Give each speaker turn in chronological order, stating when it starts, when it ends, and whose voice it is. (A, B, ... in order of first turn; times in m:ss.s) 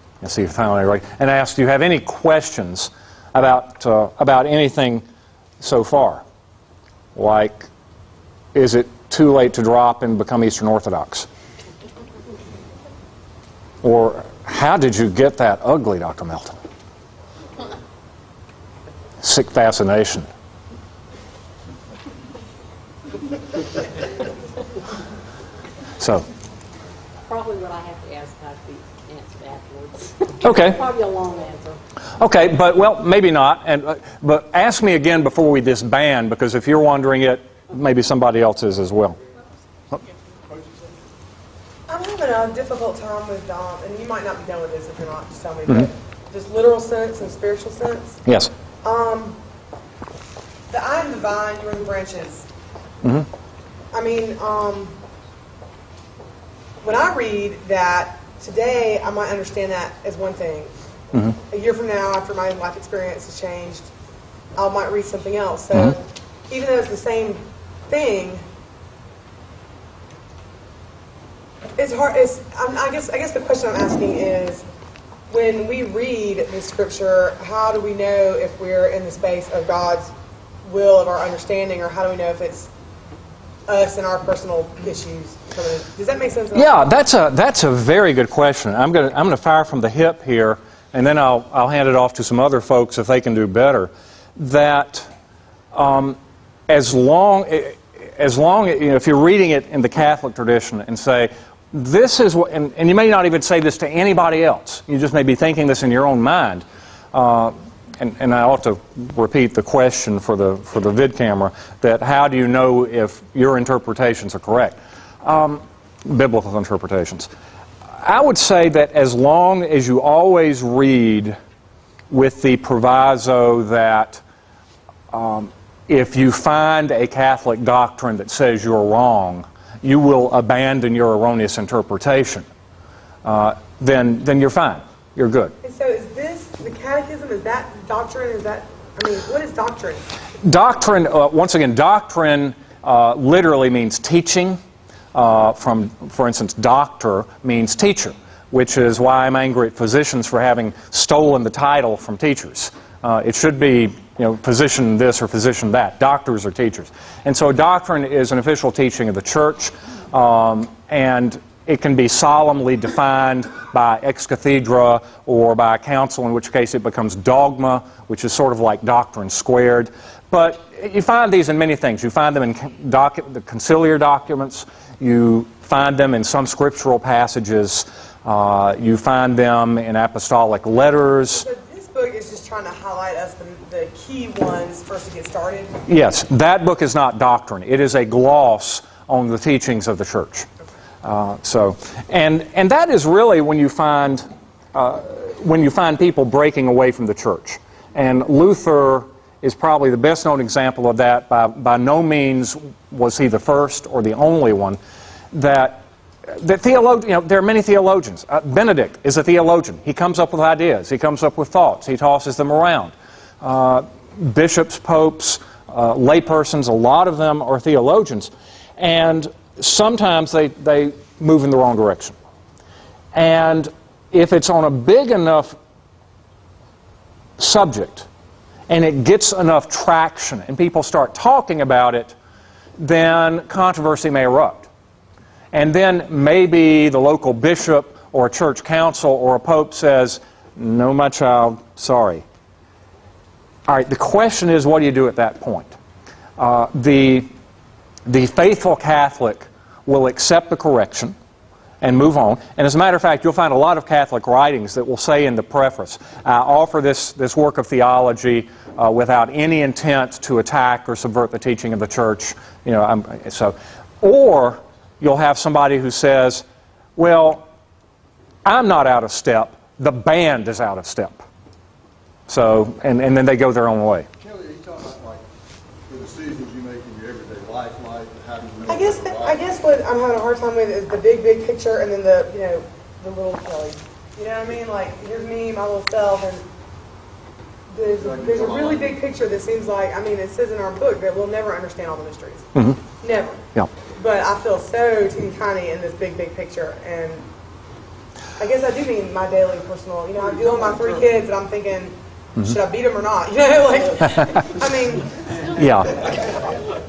0:00.2-0:05.0 A
0:05.6-0:06.2 A
0:07.2-0:07.7 A
0:08.5-0:11.3 A
0:13.8-0:16.6 A
0:19.2-0:20.3 A
0:26.0-0:26.2 A
0:27.3-0:31.8 B
0:30.4-0:30.8 A
0:32.2-0:39.2 A
0:40.5-0:40.8 C
0:41.9-0:48.2 D
0:48.2-0:48.5 A
0:48.8-0:49.4 D
0:50.7-0:52.5 D
0:53.9-0:54.9 D
0:56.8-1:00.7 D
1:01.5-1:03.9 D
1:04.5-1:08.4 D
1:11.8-1:14.6 D
1:15.3-1:20.1 D
1:20.6-1:22.7 D
1:23.6-1:26.8 D
1:26.5-1:35.1 A
1:35.7-1:57.3 A
1:58.0-2:01.4 A
2:02.1-2:04.2 A
2:05.1-2:12.4 A
2:13.2-2:15.5 A
2:15.6-2:20.0 D
2:20.4-2:24.6 A
2:25.1-3:01.4 A
3:01.3-3:05.8 D
3:05.9-3:10.5 A
3:11.0-3:24.8 A
3:25.3-3:42.2 A
3:43.1-3:45.6 A
3:47.4-3:48.1 A
3:48.7-3:52.1 A
3:52.8-3:54.7 A
3:55.5-4:02.2 A
4:03.7-4:05.7 A
4:06.4-4:07.3 A
4:08.0-4:11.1 A
4:11.8-4:26.4 A
4:27.0-4:27.4 A
4:28.4-4:31.2 A
4:32.3-4:34.1 A
4:34.2-4:35.2 C
4:35.9-4:39.5 C
4:38.7-4:46.4 D
4:47.7-4:52.5 D
4:47.9-4:49.0 C
4:52.5-4:52.8 A
4:53.0-4:53.4 D
4:53.9-4:57.3 D
4:58.4-5:05.5 D
5:05.6-5:06.1 A